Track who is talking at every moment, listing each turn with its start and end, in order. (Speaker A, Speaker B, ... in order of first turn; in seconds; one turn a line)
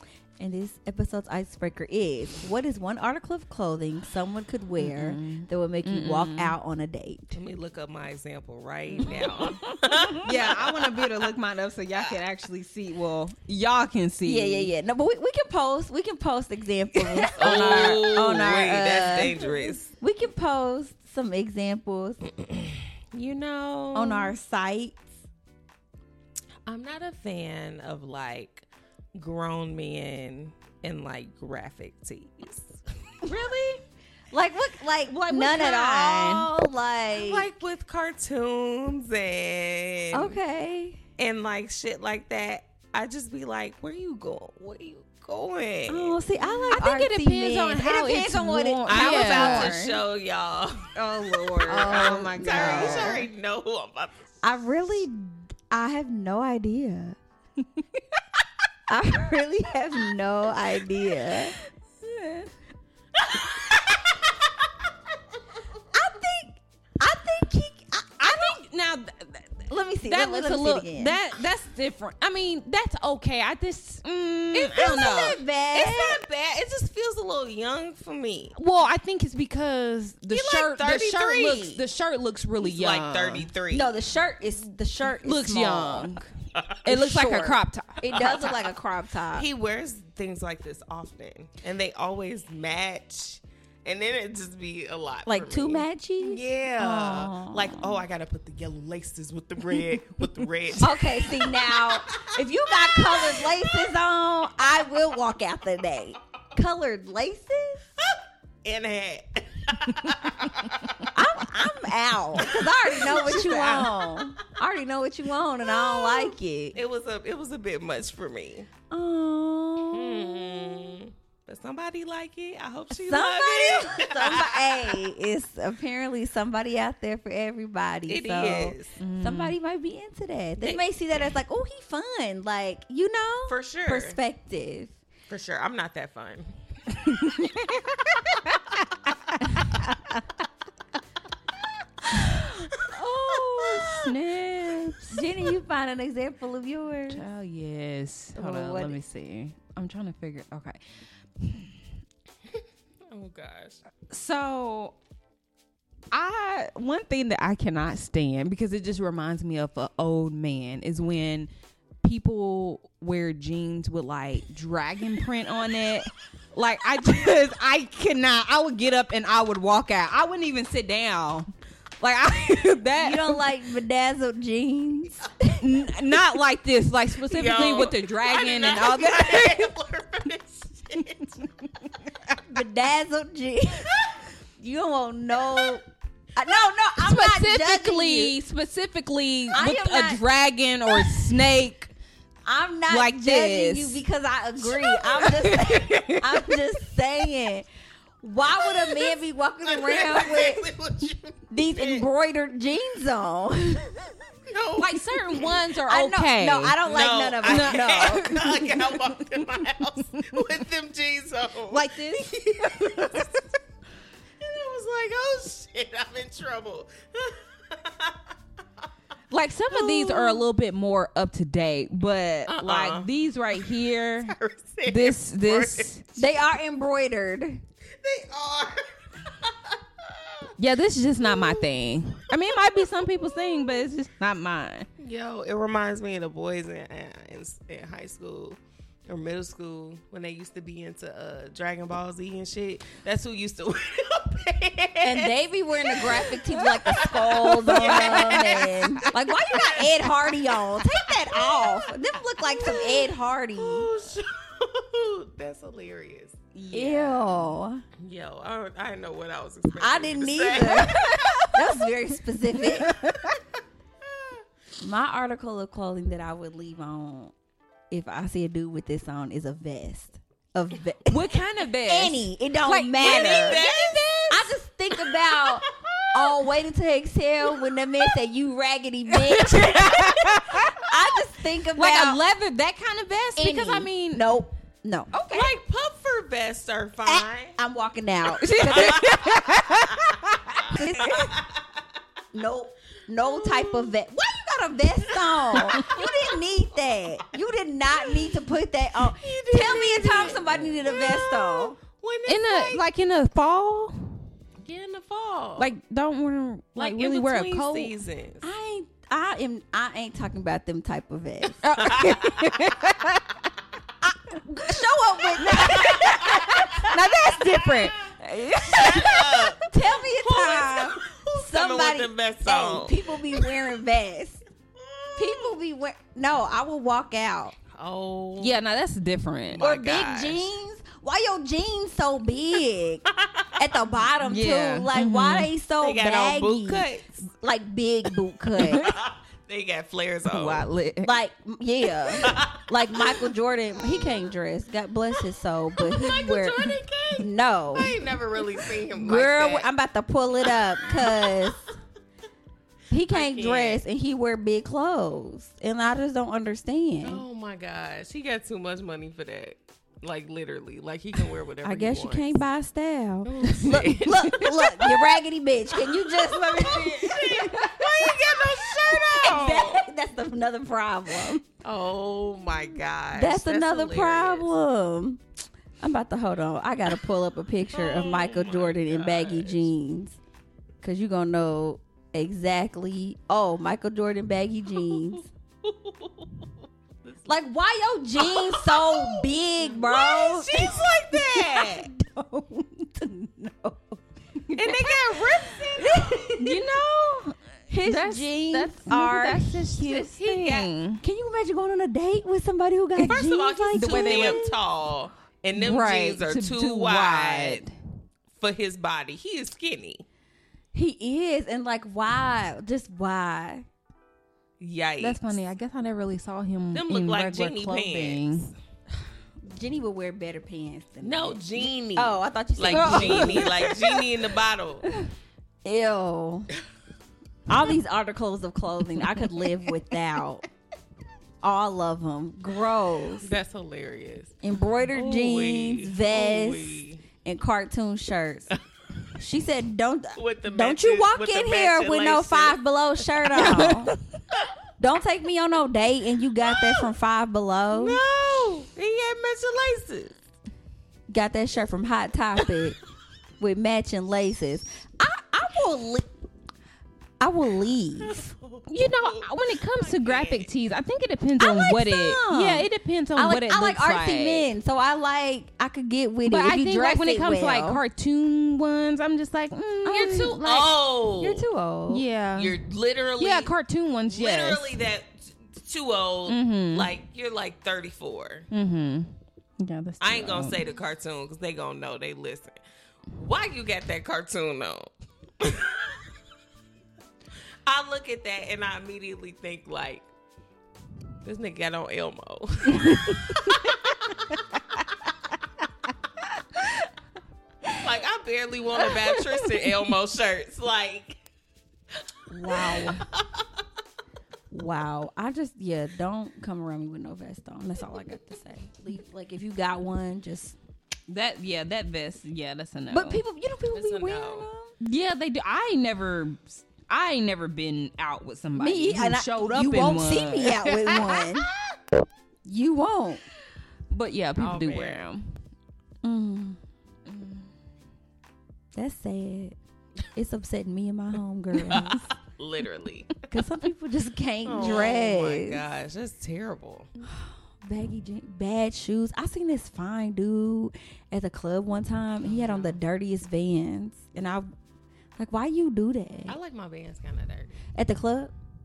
Speaker A: 0.4-7.4
Speaker B: 4.8-6.5
Speaker C: 7.3-11.3
Speaker B: 9.0-9.6
Speaker A: 9.1-9.4
Speaker B: 10.1-14.7
Speaker A: 14.2-22.3
Speaker B: 16.9-18.0
Speaker C: 17.4-19.9
Speaker C: 22.4-24.4
Speaker A: 23.9-25.1
Speaker C: 26.6-33.6
Speaker A: 34.3-37.5
Speaker B: 35.1-36.5
Speaker C: 37.1-40.4
Speaker A: 40.1-41.0
Speaker C: 41.2-46.2
Speaker A: 45.9-49.8
Speaker B: 46.4-50.0
Speaker C: 48.9-50.9
Speaker B: 50.9-53.2
Speaker C: 51.5-54.4
Speaker A: 51.7-53.3
Speaker A: 54.4-57.2
Speaker B: 57.6-58.0
Speaker A: 58.9-61.5
Speaker B: 62.0-62.5
Speaker C: 63.2-64.5
Speaker A: 65.9-68.6
Speaker B: 68.2-75.4
Speaker A: 69.7-71.2
Speaker A: 74.5-76.2
Speaker C: 75.7-78.5
Speaker B: 78.5-83.5
Speaker C: 80.3-81.8
Speaker C: 82.6-83.9
Speaker A: 83.7-86.1
Speaker B: 85.2-86.3
Speaker B: 86.8-88.3
Speaker A: 86.8-89.5
Speaker C: 88.1-88.6
Speaker C: 89.3-102.3
Speaker A: 95.2-98.0
Speaker A: 100.8-107.9
Speaker C: 102.8-103.6
Speaker C: 108.1-111.1
Speaker A: 111.1-116.8
Speaker C: 112.3-114.3
Speaker C: 115.6-118.7
Speaker A: 118.9-121.0
Speaker C: 119.9-125.0
Speaker A: 122.9-134.9
Speaker C: 128.1-129.0
Speaker B: 129.0-129.6
Speaker C: 133.5-134.2
Speaker C: 135.3-136.5
Speaker B: 136.9-138.6
Speaker B: 139.4-140.2
Speaker B: 142.1-145.2
Speaker A: 143.2-143.7
Speaker C: 143.7-144.1
Speaker A: 145.1-147.2
Speaker B: 147.1-150.8
Speaker A: 148.3-149.0
Speaker B: 151.4-151.8
Speaker C: 153.1-153.8
Speaker B: 154.1-154.9
Speaker B: 156.1-161.5
Speaker B: 162.0-171.5
Speaker B: 172.0-173.5
Speaker A: 173.0-175.6
Speaker B: 175.6-179.7
Speaker C: 177.2-181.4
Speaker A: 182.3-184.0
Speaker A: 184.6-185.8
Speaker A: 186.3-188.3
Speaker B: 187.0-191.9
Speaker A: 189.5-190.2
Speaker A: 192.4-197.7
Speaker B: 192.9-194.0
Speaker B: 195.2-196.4
Speaker A: 198.2-200.6
Speaker C: 198.6-199.1
Speaker C: 199.7-202.1
Speaker A: 201.5-204.1
Speaker C: 204.5-205.6
Speaker B: 204.8-206.8
Speaker A: 205.9-208.3
Speaker C: 206.8-213.4
Speaker B: 207.4-210.4
Speaker B: 211.7-213.4
Speaker C: 214.4-218.3
Speaker B: 219.3-224.3
Speaker C: 219.9-220.4
Speaker C: 222.5-226.0
Speaker B: 224.9-226.0
Speaker A: 226.2-227.6
Speaker C: 228.0-230.5
Speaker B: 230.6-234.9
Speaker C: 235.0-251.8
Speaker A: 245.0-253.9
Speaker B: 247.4-249.1
Speaker C: 252.5-256.4
Speaker B: 256.5-257.6
Speaker A: 256.7-257.8
Speaker C: 258.0-261.4
Speaker A: 259.8-263.0
Speaker B: 260.7-261.5
Speaker B: 262.6-263.4
Speaker A: 264.8-267.3
Speaker A: 267.9-271.3
Speaker B: 271.1-274.1
Speaker A: 271.8-273.6
Speaker C: 273.0-276.4
Speaker A: 274.3-282.2
Speaker B: 279.3-280.7
Speaker B: 281.7-284.2
Speaker A: 283.4-285.3
Speaker B: 285.1-285.5
Speaker C: 285.3-287.6
Speaker A: 287.0-289.2
Speaker B: 288.4-290.8
Speaker C: 288.7-291.6
Speaker A: 290.7-291.4
Speaker A: 292.3-301.8
Speaker C: 293.2-293.9
Speaker C: 295.3-296.3
Speaker C: 298.0-298.3
Speaker C: 299.1-302.8
Speaker B: 302.2-304.3
Speaker C: 304.6-305.7
Speaker B: 305.6-307.9
Speaker C: 306.8-308.4
Speaker A: 308.4-311.6
Speaker B: 311.6-313.4
Speaker C: 311.8-312.3
Speaker A: 314.3-317.6
Speaker B: 315.4-319.4
Speaker C: 315.5-316.7
Speaker C: 317.4-317.9
Speaker C: 318.6-323.7
Speaker A: 318.7-324.4
Speaker C: 324.8-325.5
Speaker A: 325.1-327.5
Speaker C: 327.7-328.6
Speaker B: 328.4-329.6
Speaker C: 329.5-330.5
Speaker A: 329.6-338.9
Speaker C: 333.1-333.8
Speaker B: 334.2-335.5
Speaker C: 335.8-337.2
Speaker B: 338.6-338.9
Speaker C: 338.7-340.6
Speaker B: 340.3-341.1
Speaker A: 341.0-347.9
Speaker C: 342.1-343.3
Speaker C: 345.8-349.7
Speaker A: 348.9-351.7
Speaker C: 350.5-351.4
Speaker A: 352.9-357.2
Speaker C: 353.1-353.8
Speaker C: 357.0-362.4
Speaker A: 361.6-371.4
Speaker C: 363.2-364.9
Speaker C: 365.8-369.9
Speaker B: 366.6-367.7
Speaker C: 371.6-374.5
Speaker A: 373.1-375.2
Speaker A: 375.8-380.2
Speaker C: 377.7-379.7
Speaker A: 380.8-385.3
Speaker C: 384.8-386.5
Speaker A: 387.2-394.0
Speaker C: 388.2-391.9
Speaker B: 394.5-394.9
Speaker C: 394.5-396.5
Speaker A: 395.8-396.6
Speaker B: 396.4-401.0
Speaker A: 397.7-400.2
Speaker C: 400.1-400.7
Speaker A: 401.0-404.5
Speaker C: 403.0-407.6
Speaker B: 403.7-404.5
Speaker B: 405.5-407.7
Speaker C: 408.3-410.0
Speaker A: 410.7-413.6
Speaker C: 414.6-415.4
Speaker B: 415.0-418.5
Speaker C: 416.7-418.5
Speaker A: 419.5-424.0
Speaker C: 421.0-424.9
Speaker B: 422.7-423.7
Speaker A: 425.6-426.5
Speaker A: 427.5-430.4
Speaker B: 429.0-429.7
Speaker A: 431.4-433.3
Speaker C: 433.2-434.3
Speaker A: 434.4-438.5
Speaker C: 434.9-437.0
Speaker A: 439.1-443.9
Speaker C: 440.1-443.5
Speaker B: 443.3-444.0
Speaker A: 444.8-448.0
Speaker C: 446.5-446.8
Speaker C: 447.7-450.1
Speaker A: 451.1-452.8
Speaker A: 453.4-456.1
Speaker A: 457.2-458.3
Speaker C: 458.1-460.5
Speaker B: 458.7-464.5
Speaker A: 461.4-467.8
Speaker B: 466.2-470.7
Speaker A: 469.8-472.1
Speaker C: 470.4-471.5
Speaker B: 471.9-472.6
Speaker C: 472.3-473.5
Speaker B: 473.2-474.8
Speaker C: 474.1-478.5
Speaker B: 476.3-476.9
Speaker B: 478.5-480.6
Speaker C: 480.0-482.6
Speaker C: 483.1-486.0
Speaker C: 487.6-490.1
Speaker C: 491.2-494.2
Speaker B: 492.8-493.5
Speaker C: 497.7-501.2
Speaker A: 502.3-503.1
Speaker C: 502.5-503.4
Speaker A: 504.5-510.6
Speaker B: 511.1-513.2
Speaker A: 512.9-514.7
Speaker C: 513.7-514.5
Speaker B: 514.8-521.3
Speaker A: 518.5-521.5
Speaker A: 522.5-523.2
Speaker B: 523.9-525.4
Speaker C: 524.4-525.0
Speaker A: 526.0-526.6
Speaker B: 527.1-527.5
Speaker A: 528.7-529.5
Speaker A: 530.1-532.1
Speaker C: 531.7-533.3
Speaker A: 533.3-535.6
Speaker C: 534.4-536.9
Speaker A: 537.0-544.5
Speaker C: 542.2-542.8
Speaker A: 545.2-546.4
Speaker C: 546.3-547.5
Speaker A: 547.7-548.3